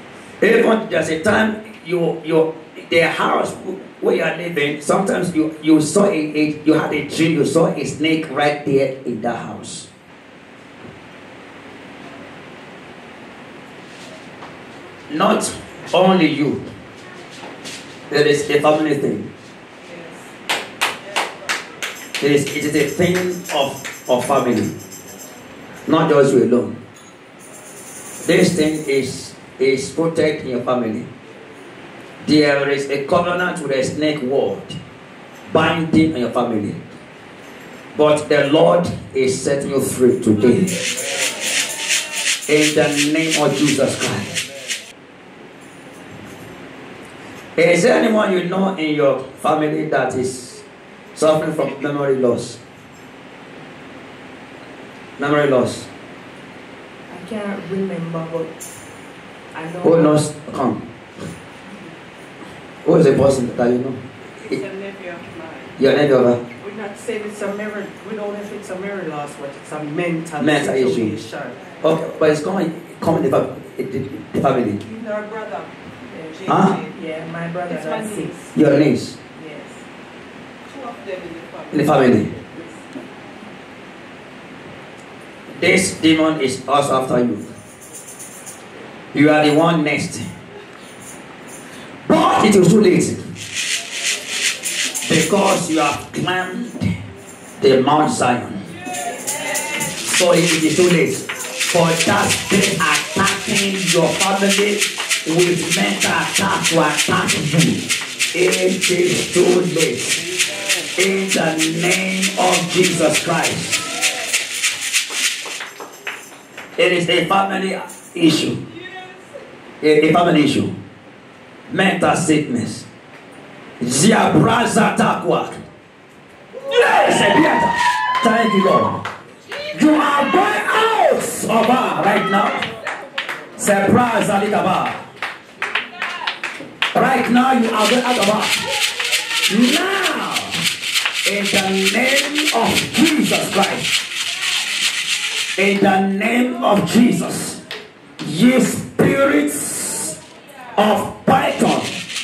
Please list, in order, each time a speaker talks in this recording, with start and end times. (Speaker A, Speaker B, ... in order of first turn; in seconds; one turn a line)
Speaker A: 0.4-9.9
Speaker A: 15.1-16.6
Speaker A: 18.1-19.3
Speaker B: 19.8-20.2
Speaker A: 22.2-24.7
Speaker A: 25.9-26.8
Speaker A: 28.2-31.1
Speaker A: 32.2-34.8
Speaker A: 35.5-36.8
Speaker A: 38.0-40.7
Speaker A: 42.5-44.4
Speaker A: 47.6-50.6
Speaker A: 51.1-52.6
Speaker A: 55.2-55.9
Speaker C: 57.1-58.5
Speaker C: 59.5-60.2
Speaker A: 59.8-60.8
Speaker A: 62.8-64.6
Speaker B: 64.4-65.7
Speaker A: 65.8-66.4
Speaker B: 66.6-71.7
Speaker A: 70.4-71.2
Speaker A: 71.8-74.8
Speaker B: 74.8-76.9
Speaker A: 76.5-76.8
Speaker C: 76.9-78.3
Speaker B: 77.7-78.5
Speaker A: 78.5-79.2
Speaker C: 79.4-79.8
Speaker B: 80.7-82.0
Speaker A: 81.7-82.3
Speaker A: 85.6-87.5
Speaker A: 89.1-90.3
Speaker A: 92.0-93.2
Speaker A: 95.0-96.9
Speaker A: 97.6-98.6
Speaker A: 100.0-110.2
Speaker A: 111.0-113.9
Speaker A: 116.8-118.6
Speaker A: 119.8-120.7
Speaker A: 121.7-122.9
Speaker A: 123.8-125.6
Speaker A: 126.6-129.0
Speaker A: 129.7-132.7
Speaker A: 133.6-135.0
Speaker A: 136.9-138.6
Speaker A: 139.5-140.6
Speaker A: 141.2-143.9
Speaker A: 145.6-147.6
Speaker A: 148.2-150.2
Speaker A: 150.8-152.0